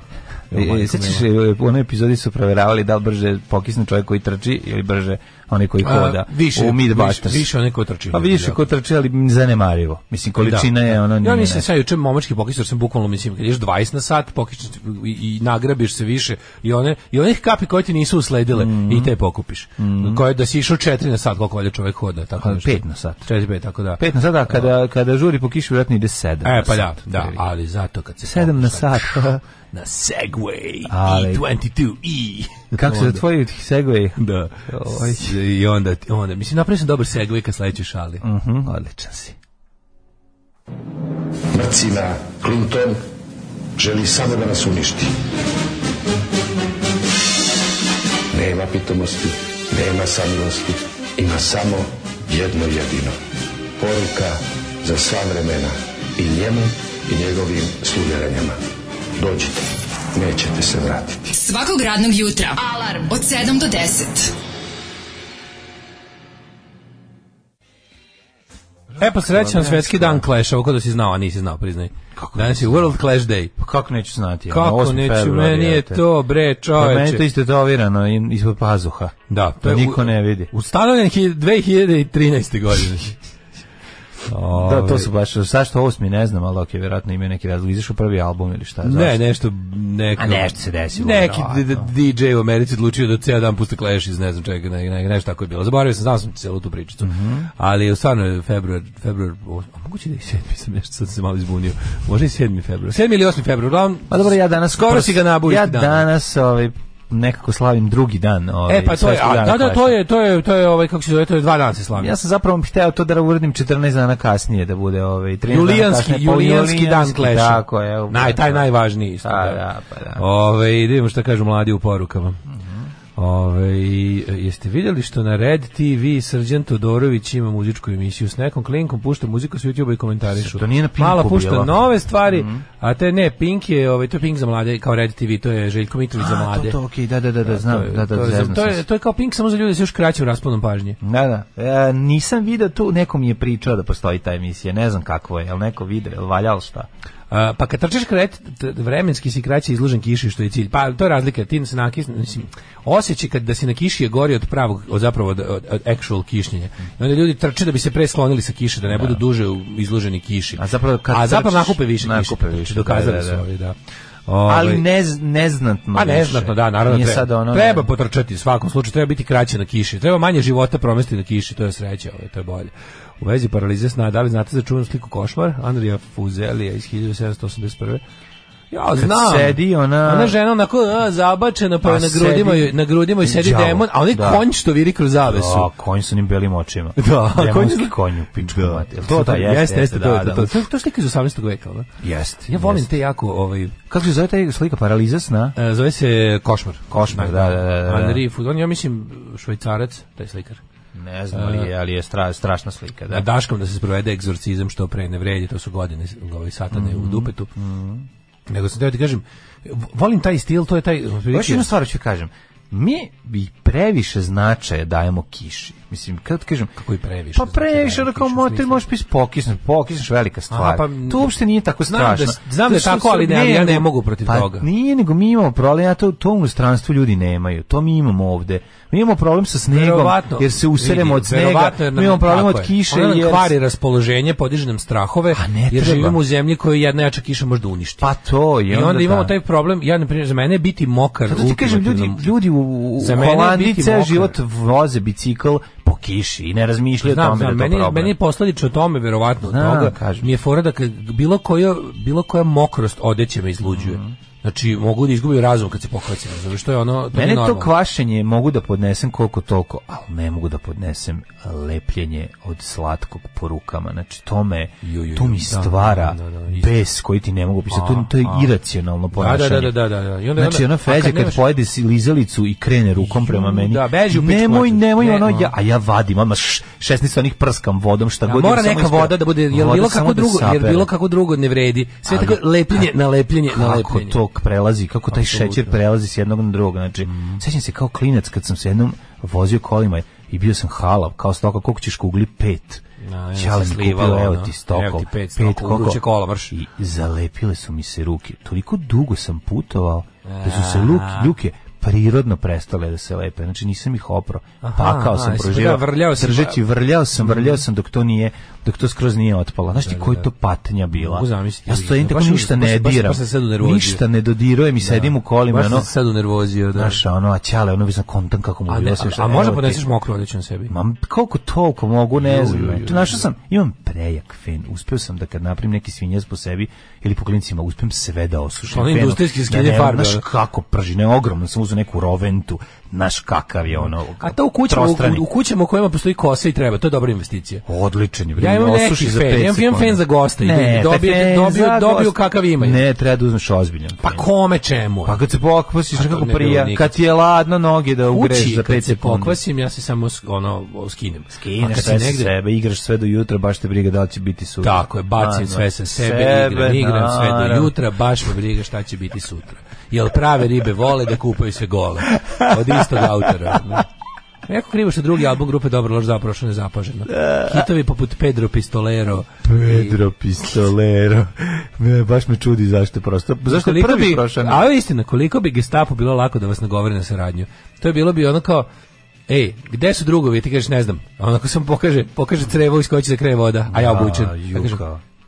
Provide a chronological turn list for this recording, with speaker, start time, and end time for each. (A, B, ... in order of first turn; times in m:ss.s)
0:00.5-0:01.3 A
0:00.5-0:07.5 B
0:05.8-0:08.6 A
0:08.1-0:11.7 B
0:10.4-0:24.7 A
0:18.5-0:19.1 B
0:19.8-0:20.2 B
0:22.4-0:23.3 B
0:24.0-0:27.4 B
0:26.4-0:33.2 A
0:28.2-0:29.4 B
0:30.9-0:31.4 B
0:32.8-0:35.4 B
0:34.2-0:38.2 A
0:38.2-0:39.4 B
0:41.5-0:43.0 C
0:43.8-0:45.2 C
0:48.3-0:53.2 C
0:53.8-0:58.6 C
0:59.2-1:01.2 C
1:01.3-1:04.4 D
1:09.0-1:13.5 A
1:09.2-1:10.2 B
1:12.2-1:13.0 B
1:13.6-1:16.0 B
1:14.5-1:17.2 A
1:16.7-1:20.5 B
1:19.3-1:23.2 A
1:24.3-1:25.1 A
1:24.5-1:29.2 B
1:28.8-1:46.1 A
1:30.2-1:31.9 B
1:37.0-1:37.5 B
1:44.1-1:50.0 B
1:48.7-1:52.2 A
1:52.0-1:58.7 B
1:55.5-1:59.6 A
1:59.2-2:00.2 B
2:00.2-2:02.4 A
2:02.5-2:02.9 B
2:03.2-2:16.8 A
2:10.3-2:12.6 B
2:16.2-2:18.8 B
2:17.5-2:21.0 A
2:21.0-2:26.9 B
2:27.3-2:43.8 A
2:38.9-2:39.2 B
2:40.6-2:43.4 B
2:44.3-2:44.8 A
2:44.5-2:47.9 B
2:45.9-2:58.0 A
2:58.7-3:05.7 A
2:59.0-3:00.4 B
3:01.8-3:04.5 B
3:05.2-3:10.6 B
3:07.0-3:11.9 A
3:12.0-3:12.9 B
3:12.5-3:13.8 A
3:13.9-3:15.6 B
3:15.6-3:20.6 A
3:16.9-3:18.2 B
3:20.9-3:23.3 B
3:21.3-3:21.7 A
3:23.1-3:27.5 A
3:26.7-3:28.1 B
3:28.5-3:31.7 A
3:31.3-3:36.7 B
3:36.8-3:38.9 A
3:37.3-3:53.5 B
3:40.5-3:41.3 A
3:41.8-3:44.7 A
3:49.7-3:58.1 A
3:55.3-3:56.2 B
3:58.0-3:59.3 B
3:58.7-4:02.4 A
4:01.3-4:08.2 B
4:03.0-4:04.4 A
4:07.0-4:17.7 A
4:09.4-4:10.3 B
4:13.6-4:14.2 B
4:17.1-4:29.8 B
4:24.8-4:26.7 A
4:27.7-4:28.5 A
4:29.1-4:31.4 A
4:30.4-4:40.9 B
4:33.0-4:35.5 A
4:38.2-4:44.2 A
4:42.0-4:42.9 B
4:43.5-4:52.8 B
4:45.1-4:45.8 A
4:47.1-4:47.4 A
4:53.0-4:56.5 A
4:53.4-5:15.9 B
5:00.3-5:01.3 A
5:04.6-5:06.6 A
5:07.2-5:07.6 A
5:09.8-5:10.3 A
5:10.9-5:14.0 A
5:14.8-5:17.0 A
5:16.7-5:19.8 B
5:18.7-5:20.7 A
5:20.7-5:35.3 B
5:22.2-5:23.3 A
5:28.7-5:30.2 A
5:33.8-5:37.6 A
5:37.7-5:44.2 B
5:38.4-5:42.8 A
5:44.0-5:45.2 A
5:45.0-5:49.4 B
5:45.9-5:47.0 A
5:48.1-5:52.3 A
5:51.3-5:57.7 B
5:54.6-6:03.9 A
6:02.2-6:03.8 B
6:04.5-6:10.0 A
6:07.1-6:07.7 B
6:09.4-6:14.7 B
6:13.5-6:18.7 A
6:19.3-6:24.8 A
6:23.7-6:25.0 B